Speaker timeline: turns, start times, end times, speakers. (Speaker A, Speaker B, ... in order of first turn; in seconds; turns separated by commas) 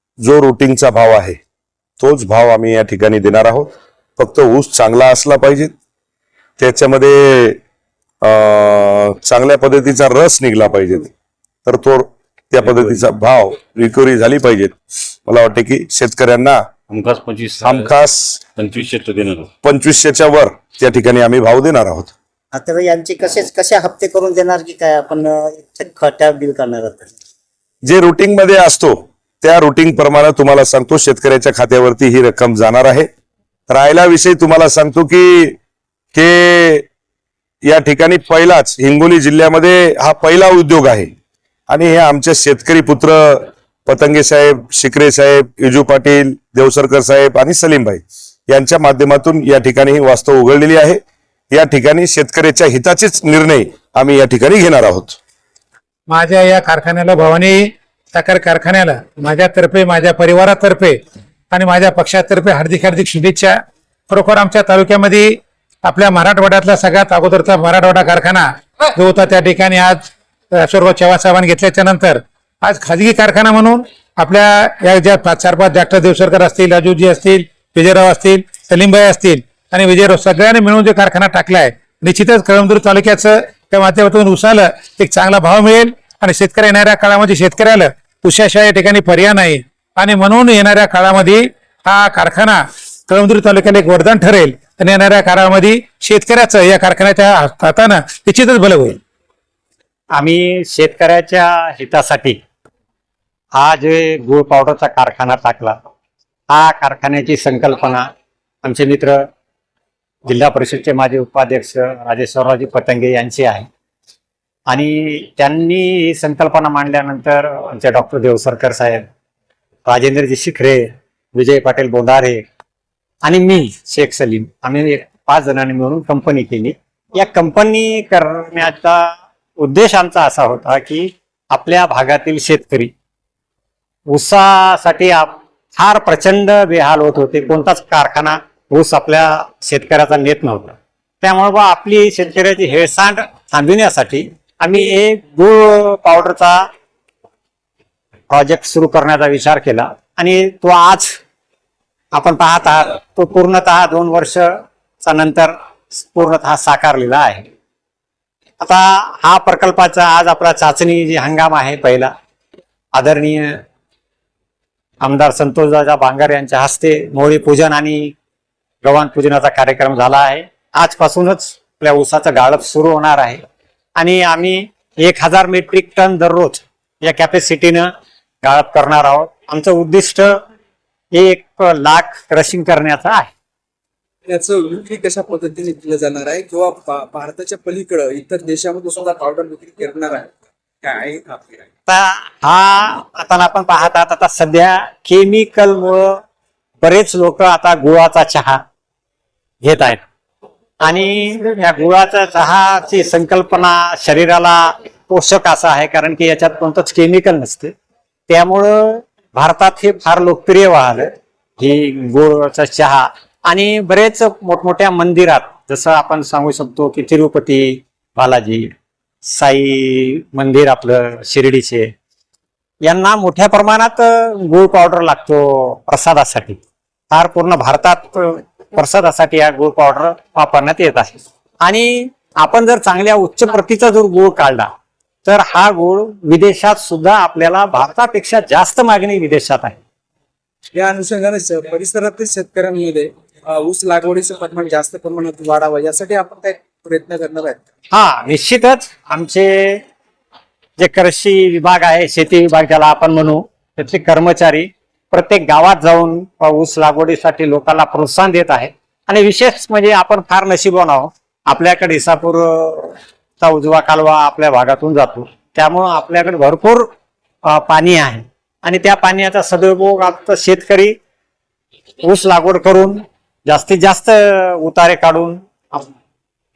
Speaker A: 0.2-1.4, Speaker A: 2.0-5.7, Speaker A: 6.6-7.6, Speaker A: 8.2-11.1, Speaker A: 11.7-16.6, Speaker B: 12.6-13.0, Speaker B: 16.9-17.9, Speaker A: 17.6-18.4, Speaker B: 18.6-19.5, Speaker A: 19.6-22.1, Speaker C: 22.5-27.1, Speaker A: 27.9-33.1, Speaker A: 33.7-35.6, Speaker A: 36.1-36.9, Speaker A: 37.6-41.1, Speaker A: 41.7-51.0, Speaker A: 51.5-55.2, Speaker D: 56.1-61.0, Speaker D: 61.5-99.0, Speaker E: 100.1-102.4, Speaker E: 103.5-105.8, Speaker E: 106.5-108.1, Speaker E: 108.6-109.2, Speaker E: 110.2-113.7, Speaker E: 114.7-119.1, Speaker E: 119.8-122.4, Speaker E: 123.2-132.9, Speaker E: 134.1-146.7, Speaker E: 148.3-151.1, Speaker E: 152.1-157.4, Speaker E: 158.6-162.1, Speaker E: 162.9-163.6, Speaker E: 165.0-168.1, Speaker E: 168.8-173.4, Speaker E: 174.0-177.9, Speaker E: 178.4-180.3, Speaker E: 181.1-183.3, Speaker F: 184.2-191.6, Speaker E: 191.9-196.2, Speaker E: 196.8-198.6, Speaker E: 199.6-200.0, Speaker E: 200.8-207.7, Speaker E: 208.3-218.7, Speaker E: 219.2-221.9, Speaker E: 222.8-234.7, Speaker E: 235.2-239.8, Speaker F: 240.8-247.6, Speaker E: 247.9-249.8, Speaker E: 250.8-266.9, Speaker E: 267.4-270.9, Speaker E: 272.0-275.9